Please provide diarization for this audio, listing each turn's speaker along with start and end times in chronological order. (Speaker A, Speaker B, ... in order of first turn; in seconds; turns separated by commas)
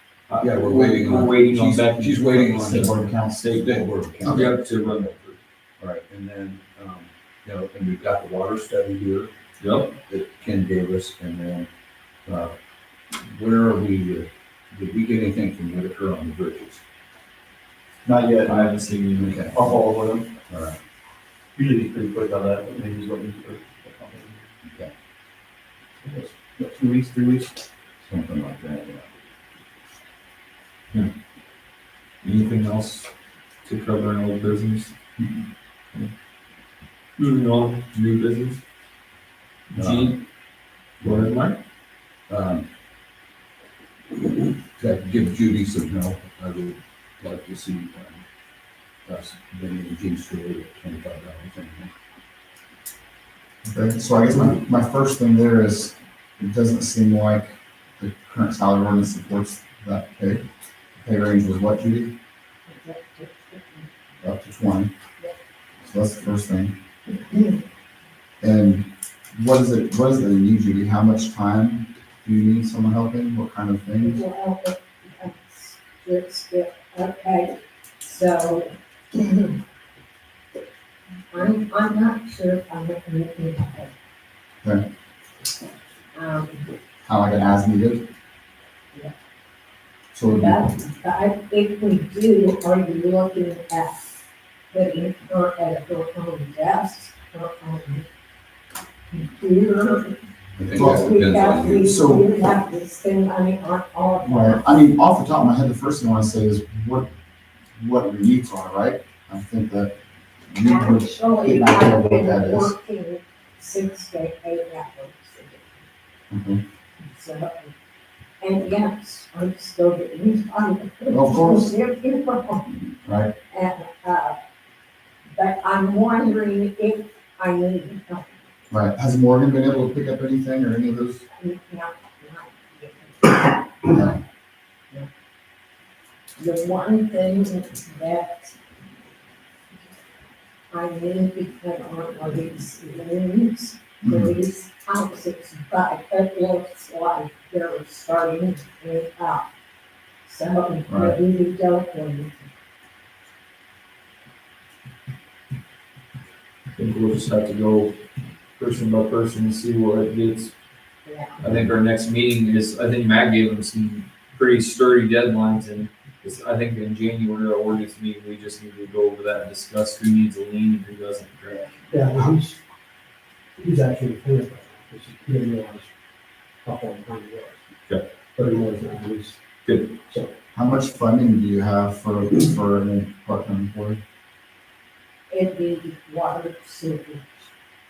Speaker A: 0.3-3.6, Speaker B: 0.4-5.1, Speaker C: 2.7-4.5, Speaker A: 4.2-5.3, Speaker B: 5.8-9.3, Speaker A: 9.6-9.9, Speaker B: 9.9-11.7, Speaker B: 12.2-12.5, Speaker B: 13.1-16.8, Speaker D: 18.0-18.7, Speaker A: 18.4-19.5, Speaker B: 19.2-19.6, Speaker D: 19.5-20.3, Speaker B: 20.5-20.8, Speaker D: 21.6-24.4, Speaker B: 26.1-27.5, Speaker B: 28.0-29.1, Speaker A: 32.2-33.1, Speaker A: 33.6-34.9, Speaker A: 37.2-38.6, Speaker A: 39.7-40.2, Speaker B: 39.8-40.2, Speaker B: 41.0-41.3, Speaker A: 41.0-41.6, Speaker B: 42.3-42.7, Speaker B: 44.8-48.2, Speaker B: 49.0-51.9, Speaker C: 53.6-60.5, Speaker C: 61.0-62.1, Speaker E: 62.6-63.9, Speaker C: 64.2-64.9, Speaker C: 65.8-66.8, Speaker E: 67.1-67.6, Speaker C: 68.4-74.2, Speaker E: 74.0-79.6, Speaker E: 81.3-83.9, Speaker E: 86.1-86.7, Speaker C: 87.0-88.1, Speaker C: 90.1-90.7, Speaker E: 90.4-94.1, Speaker E: 94.7-98.0, Speaker E: 99.1-100.2, Speaker B: 100.6-101.9, Speaker C: 100.7-101.1, Speaker E: 100.9-104.6, Speaker C: 101.7-102.3, Speaker C: 104.2-107.1, Speaker C: 107.8-109.9, Speaker C: 110.5-112.7, Speaker E: 110.7-115.7, Speaker C: 116.3-116.6, Speaker E: 117.0-117.7, Speaker E: 118.4-122.7, Speaker C: 121.1-121.7, Speaker C: 123.0-123.3, Speaker E: 123.5-124.4, Speaker E: 125.3-128.3, Speaker C: 128.7-131.2, Speaker E: 131.3-133.9, Speaker C: 133.9-134.2, Speaker E: 136.4-138.5, Speaker E: 140.7-149.4, Speaker C: 144.0-144.4, Speaker E: 150.2-152.5, Speaker C: 150.9-151.2, Speaker A: 156.8-158.0, Speaker A: 158.6-160.5, Speaker E: 161.0-161.4, Speaker A: 161.4-171.7, Speaker F: 171.9-172.6, Speaker F: 173.6-175.9, Speaker F: 176.6-177.5, Speaker F: 178.3-179.4, Speaker A: 179.6-180.0, Speaker C: 180.5-184.0, Speaker E: 185.3-187.5